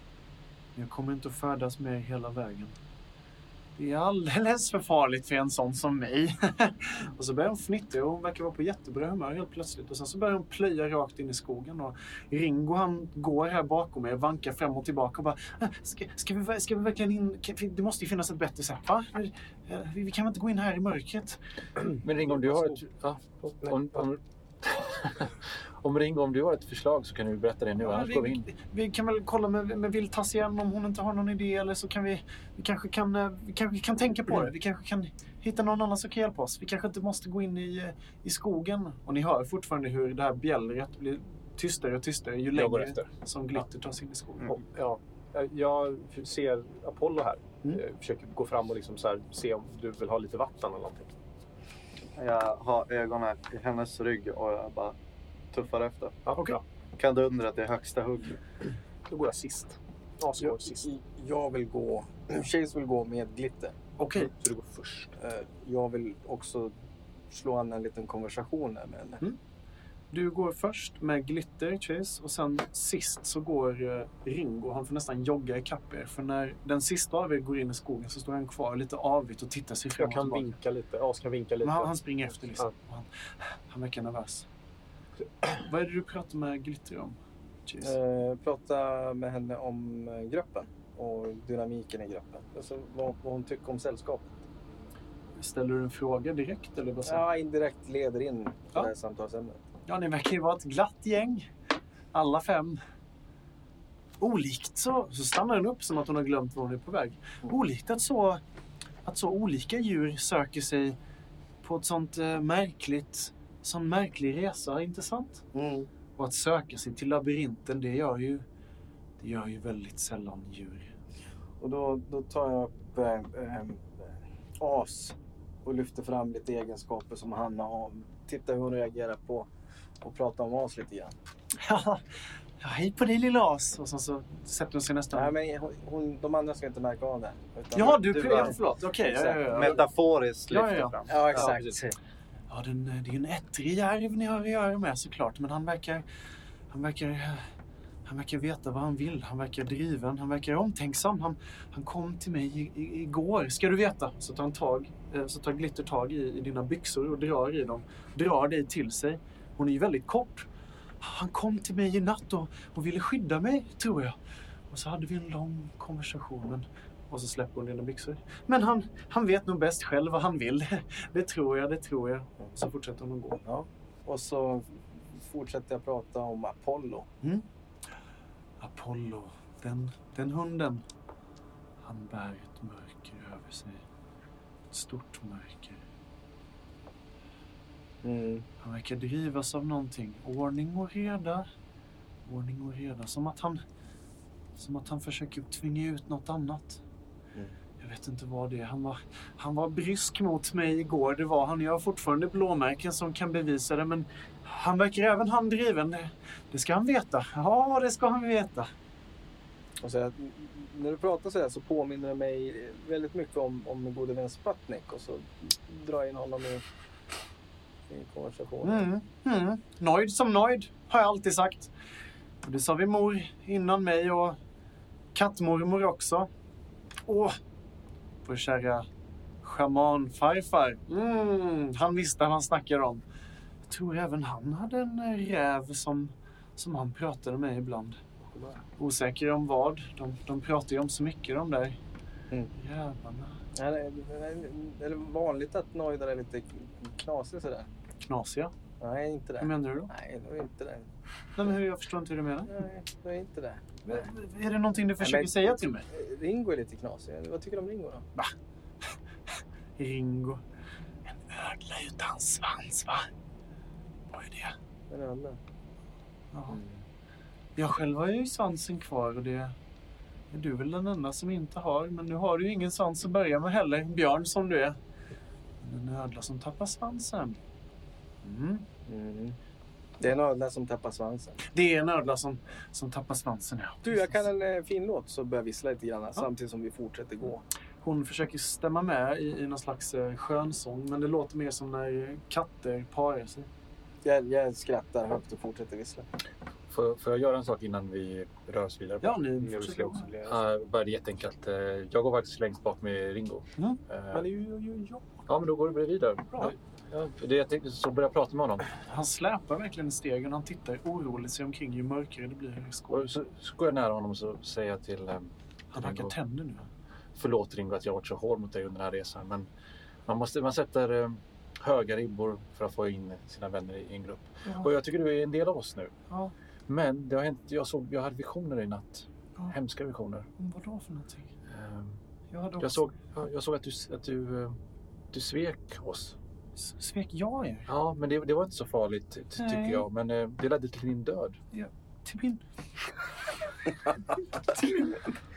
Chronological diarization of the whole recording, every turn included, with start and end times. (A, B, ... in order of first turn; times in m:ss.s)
0:00.8-0:02.8 A
0:03.8-0:21.4 A
0:22.0-0:28.5 B
0:27.8-0:44.6 A
0:42.6-0:42.9 C
0:42.7-0:43.0 B
0:44.5-0:51.1 C
0:52.2-0:55.0 D
0:55.5-0:56.2 D
0:56.3-0:56.6 C
0:57.0-0:58.4 D
0:59.1-1:00.9 C
1:00.4-1:03.8 E
1:04.0-1:04.3 A
1:04.2-1:05.1 C
1:05.2-1:06.7 E
1:07.3-1:09.2 E
1:10.1-1:20.5 A
1:20.0-1:21.9 C
1:21.6-1:24.5 A
1:25.4-1:28.0 A
1:27.8-1:34.4 E
1:35.4-1:37.3 A
1:37.0-1:39.6 E
1:39.9-1:41.5 A
1:42.1-1:42.8 A
1:44.2-1:48.4 A
1:49.0-1:51.0 A
1:51.6-1:55.4 A
1:55.5-1:55.9 E
1:56.2-1:58.4 A
1:59.2-2:00.9 A
2:01.6-2:09.5 E
2:10.0-2:11.2 E
2:11.6-2:12.0 A
2:12.6-2:15.4 A
2:15.1-2:19.8 E
2:17.7-2:19.8 A
2:18.0-2:18.6 D
2:19.5-2:21.6 D
2:20.5-2:21.0 A
2:21.1-2:22.0 E
2:21.3-2:21.8 C
2:22.5-2:26.1 A
2:26.7-2:27.5 A
2:28.1-2:40.5 A
2:41.0-2:44.2 A
2:44.7-2:53.4 A
2:53.4-2:57.1 E
2:58.6-3:00.8 A
3:01.8-3:03.8 A
3:04.7-3:05.8 A
3:08.0-3:08.5 E
3:08.6-3:11.5 A
3:12.3-3:13.6 A
3:14.6-3:16.8 A
3:17.8-3:28.7 A
3:29.8-3:36.6 E
3:37.9-3:38.9 E
3:38.6-3:41.7 A
3:42.4-3:44.4 A
3:45.2-3:46.3 A
3:47.1-3:47.4 A
3:48.2-3:48.9 A
3:49.4-3:53.0 A
3:53.7-3:58.0 A
3:58.8-4:01.8 A
4:02.5-4:03.4 A
4:03.6-4:07.7 E
4:08.1-4:08.5 A
4:08.8-4:10.9 E
4:09.4-4:09.9 A
4:11.4-4:12.6 A
4:12.5-4:13.7 E
4:13.8-4:15.9 A
4:15.0-4:18.0 E
4:19.8-4:20.4 A
4:21.1-4:23.1 A
4:24.1-4:24.6 A
4:24.9-4:25.4 E
4:26.3-4:26.6 A
4:26.5-4:26.8 E
4:27.6-4:29.6 A
4:30.3-4:34.8 A
4:35.6-4:37.4 A
4:38.2-4:38.7 A
4:38.9-4:39.4 E
4:40.0-4:41.4 E
4:41.5-4:44.1 A
4:43.8-4:47.4 E
4:47.8-4:53.5 A
4:54.0-4:56.1 E
4:56.7-4:59.2 B
4:59.0-5:00.1 A
4:59.4-5:00.4 C
5:00.2-5:04.2 B
5:04.1-5:05.2 C
5:05.3-5:08.7 B
5:08.9-5:13.1 A
5:12.9-5:16.2 B
5:15.7-5:16.7 A
5:17.2-5:19.5 B
5:20.1-5:25.9 B
5:26.7-5:30.3 B
5:30.4-5:31.3 A
5:31.5-5:32.0 B
5:32.3-5:32.8 A
5:32.6-5:34.6 B
5:35.1-5:36.2 B
5:36.6-5:37.7 A
5:37.7-5:41.4 B
5:39.4-5:39.9 A
5:41.5-5:42.4 A
5:43.9-5:45.2 A